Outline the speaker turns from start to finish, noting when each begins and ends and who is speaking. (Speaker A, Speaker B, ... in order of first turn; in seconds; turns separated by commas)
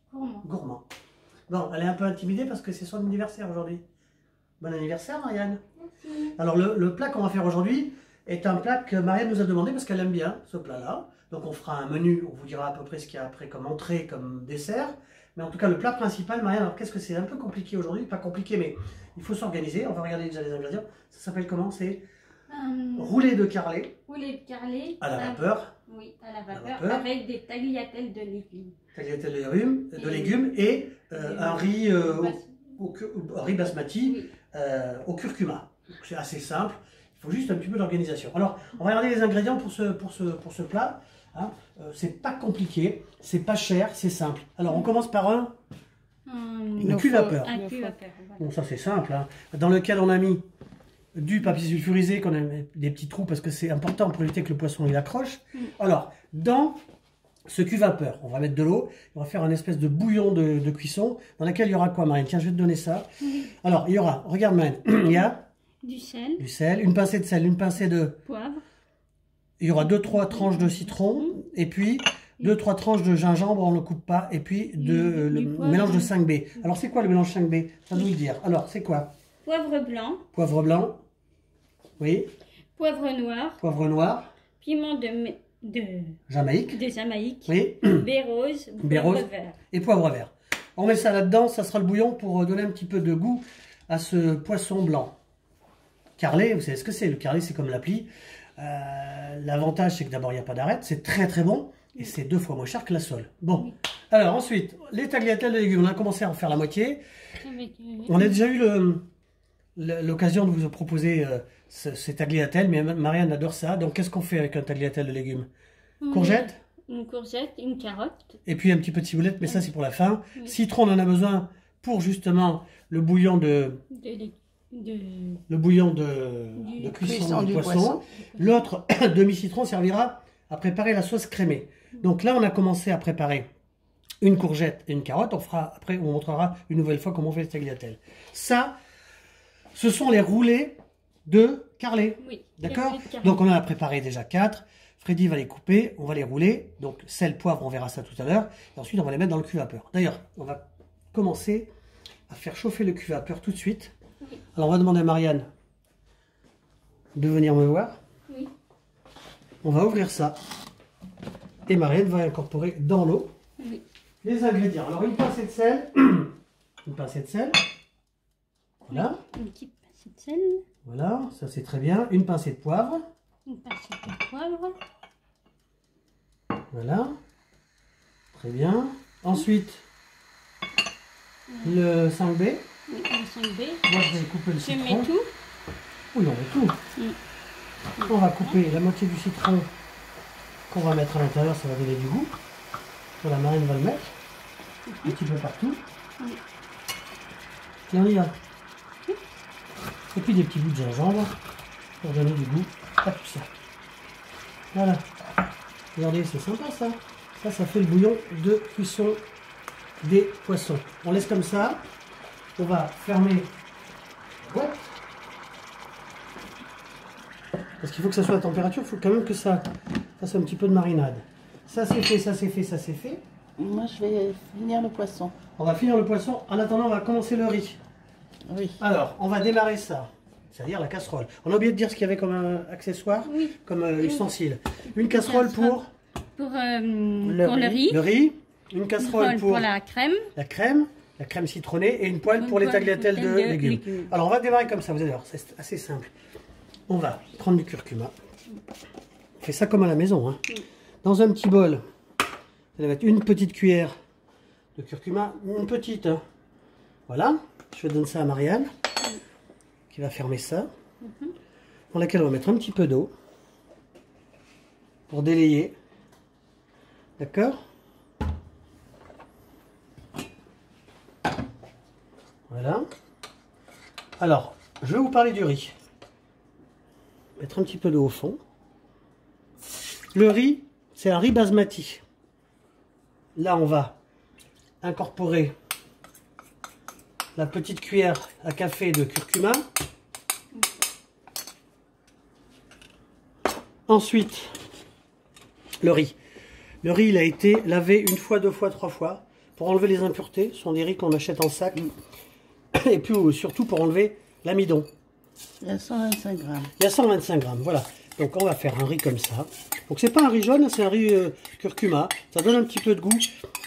Speaker A: 0.1-0.5, Speaker B: 0.4-0.8, Speaker B: 1.5-3.8, Speaker B: 4.6-5.6, Speaker B: 6.4-22.1, Speaker A: 22.5-23.3, Speaker B: 23.0-23.9, Speaker A: 24.1-28.8, Speaker B: 25.0-25.7, Speaker B: 26.5-27.1, Speaker B: 28.9-45.5, Speaker A: 30.0-30.4, Speaker A: 31.2-32.4, Speaker A: 34.0-34.3, Speaker A: 46.3-48.4, Speaker C: 46.8-48.0, Speaker B: 46.8-47.5, Speaker B: 48.4-50.4, Speaker B: 51.1-56.8, Speaker B: 57.5-65.5, Speaker A: 65.8-66.4, Speaker B: 66.4-68.2, Speaker A: 68.2-68.6, Speaker B: 69.6-79.1, Speaker A: 69.8-71.3, Speaker A: 74.8-76.1, Speaker A: 79.4-80.2, Speaker B: 80.3-81.0, Speaker B: 82.0-82.3, Speaker A: 82.8-83.6, Speaker B: 83.6-84.3, Speaker A: 84.6-86.2, Speaker B: 86.3-86.8, Speaker A: 86.7-89.6, Speaker B: 87.5-88.1, Speaker B: 88.8-95.2, Speaker B: 96.2-107.0, Speaker A: 107.4-108.4, Speaker B: 108.1-109.0, Speaker B: 109.8-115.5, Speaker A: 116.0-118.4, Speaker B: 116.1-116.6, Speaker B: 118.5-123.8, Speaker A: 123.9-125.4, Speaker B: 125.5-133.5, Speaker A: 126.6-127.5, Speaker C: 127.0-128.0, Speaker A: 128.1-128.7, Speaker B: 134.2-138.8, Speaker B: 139.7-150.6, Speaker A: 142.2-143.4, Speaker B: 151.1-151.7, Speaker B: 152.3-153.9, Speaker B: 154.6-155.5, Speaker B: 157.2-158.0, Speaker B: 159.6-160.4, Speaker B: 161.7-163.3, Speaker B: 164.2-167.6, Speaker B: 168.9-169.2, Speaker A: 168.9-170.6, Speaker B: 170.8-173.0, Speaker A: 173.5-174.8, Speaker B: 176.7-177.2, Speaker B: 178.3-179.9, Speaker A: 181.5-181.8, Speaker B: 181.6-182.7, Speaker A: 182.9-183.9, Speaker B: 183.9-185.1, Speaker A: 184.6-185.3, Speaker B: 186.1-186.8, Speaker A: 188.0-188.6, Speaker B: 188.0-189.7, Speaker B: 190.7-192.3, Speaker B: 193.2-194.1, Speaker A: 194.9-195.2, Speaker B: 195.0-195.8, Speaker B: 197.9-198.3, Speaker B: 200.1-201.3, Speaker B: 202.0-203.5, Speaker B: 204.7-205.0, Speaker B: 206.0-209.2, Speaker B: 210.0-211.8, Speaker B: 212.6-213.5, Speaker B: 214.4-214.9, Speaker B: 217.8-219.7, Speaker B: 220.2-223.2, Speaker C: 223.6-225.3, Speaker B: 225.6-227.8, Speaker C: 228.5-228.8, Speaker B: 228.8-235.9, Speaker A: 233.2-234.3, Speaker A: 234.9-235.8, Speaker A: 236.4-238.0, Speaker C: 237.2-237.9, Speaker B: 237.9-239.7, Speaker A: 239.0-240.3, Speaker B: 240.3-246.1, Speaker A: 242.3-244.1, Speaker B: 246.9-248.1, Speaker B: 249.4-250.4, Speaker B: 251.0-251.8, Speaker B: 252.8-253.9, Speaker B: 254.8-256.2, Speaker B: 257.1-258.7, Speaker B: 259.9-260.7, Speaker A: 261.0-261.3, Speaker B: 261.9-263.1, Speaker B: 265.1-265.8, Speaker B: 267.2-267.6, Speaker B: 272.5-272.9, Speaker B: 274.2-275.8, Speaker B: 277.4-278.4, Speaker B: 280.1-282.0, Speaker B: 283.4-284.0, Speaker B: 284.8-285.5, Speaker B: 287.4-289.6, Speaker B: 293.9-294.6, Speaker B: 295.8-296.2, Speaker B: 296.8-301.8, Speaker B: 302.7-304.9, Speaker C: 305.6-306.7, Speaker B: 306.8-313.3